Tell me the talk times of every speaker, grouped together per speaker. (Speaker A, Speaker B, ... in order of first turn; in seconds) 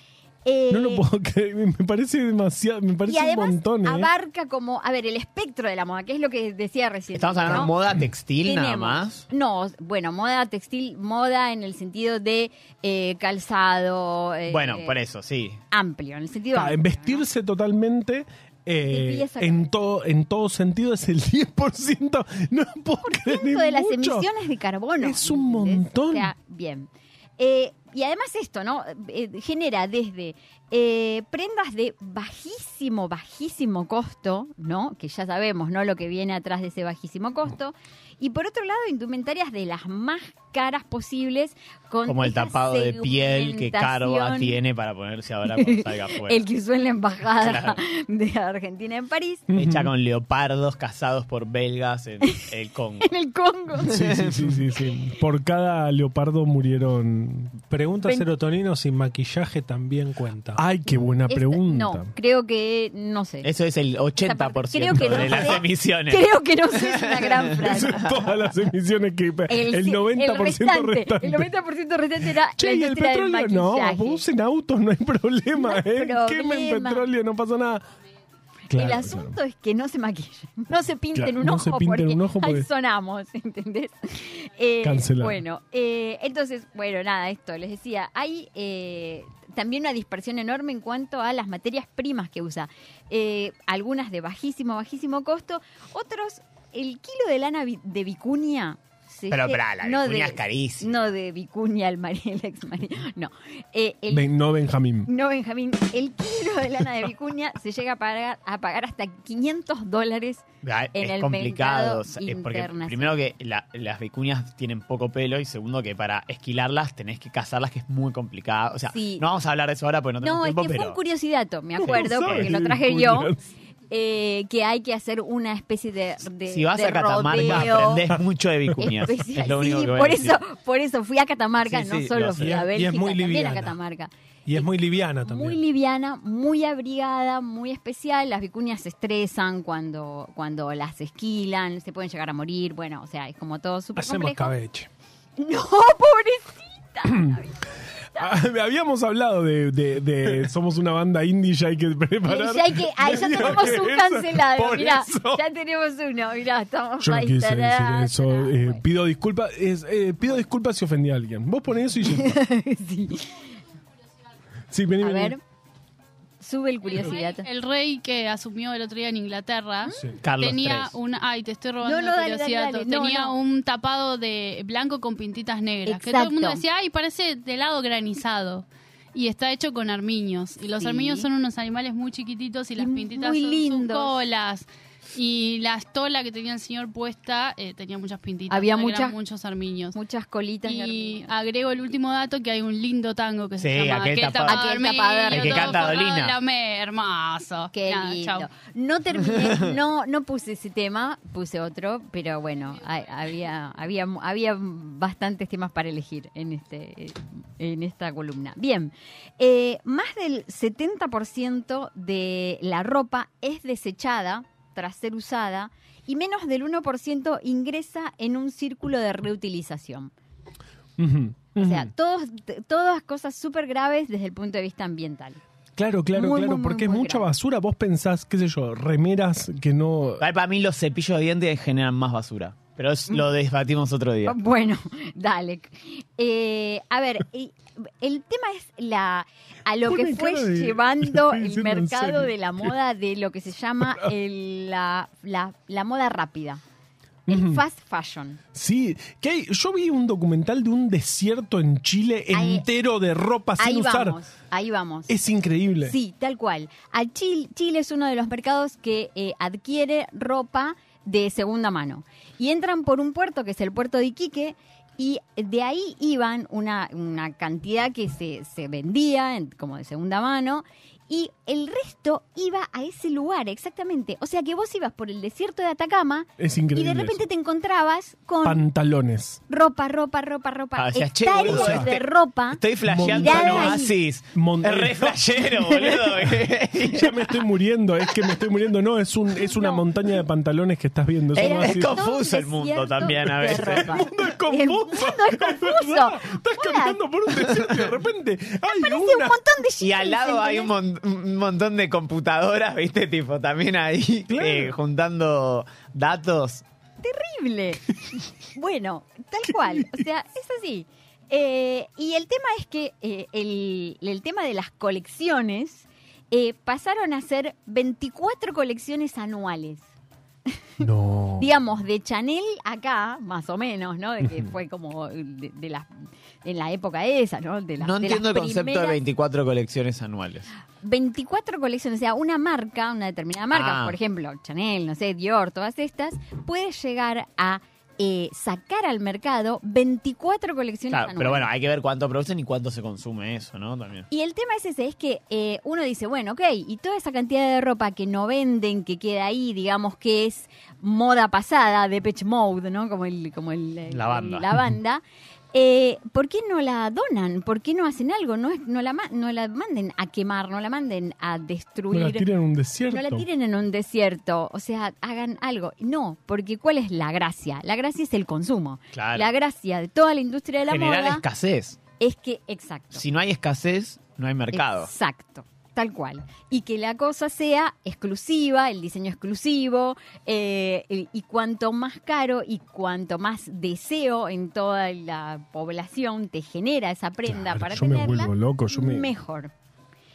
Speaker A: 0.5-1.1, 3.1-7.8, 8.4-15.0, 15.7-17.2, 18.9-19.6, 23.0-44.6, 45.5-49.5, 53.0-54.0, 61.3-63.5, 64.2-68.3, 69.5-74.2, 75.5-77.1, 78.7-104.3, 105.1-113.2, 118.9-119.3, 120.2-123.3, 123.9-128.1, 128.8-134.7, 135.2-144.5, 145.4-148.3, 152.2-158.8, 162.1-163.5, 165.0-165.4, 166.4-167.5, 171.8-173.4, 175.9-176.6, 180.8-181.3, 182.8-184.2, 188.5-189.2, 189.9-191.3, 194.4-195.9, 197.7-220.1, 221.6-225.4, 226.1-227.3, 234.3-246.6, 247.3-248.4, 252.3-252.7, 253.6-255.1, 255.8-278.6, 279.5-283.9, 289.3-289.9, 291.3-297.0, 298.7-300.7, 307.0-319.9, 321.4-329.0, 330.8-341.5, 344.1-362.3, 362.9-371.2, 372.0-373.0, 374.5-389.5
Speaker B: 0.7-4.1, 16.5-24.3, 25.0-26.3, 49.5-49.9, 53.9-57.5, 60.6-62.1, 65.0-65.3, 67.6-71.5, 72.2-77.8, 78.7-79.4, 81.2-82.7, 84.8-85.4, 104.1-105.1, 121.8-123.4, 127.5-128.2, 148.2-155.4, 157.0-162.3, 164.7-165.4, 221.0-221.9, 225.8-230.3, 239.8-242.8, 243.8-244.1, 247.3-247.6, 248.5-254.2, 255.1-256.0, 276.4-277.2, 278.4-279.4, 281.4-281.9, 282.8-292.0, 293.1-299.4, 304.3-304.8, 320.8-321.6, 361.9-363.3, 387.3-389.1
Speaker C: 7.1-9.2, 14.5-15.6, 42.1-46.4, 47.4-47.8, 49.5-53.1, 53.8-54.6, 63.4-66.2, 99.3-100.9, 110.6-121.0, 122.1-122.5, 126.5-130.4, 131.6-132.7, 170.2-171.0, 193.6-194.7, 195.3-196.4, 230.2-234.3, 280.8-287.4, 291.3-294.0, 299.8-306.6, 327.8-330.5, 333.5-334.0, 340.9-344.1, 353.9-354.5, 368.9-369.3, 370.7-371.8, 372.9-374.9
Speaker D: 57.6-60.6, 132.5-133.8, 134.5-135.6, 144.0-144.9
Speaker E: 166.9-190.0, 190.6-198.5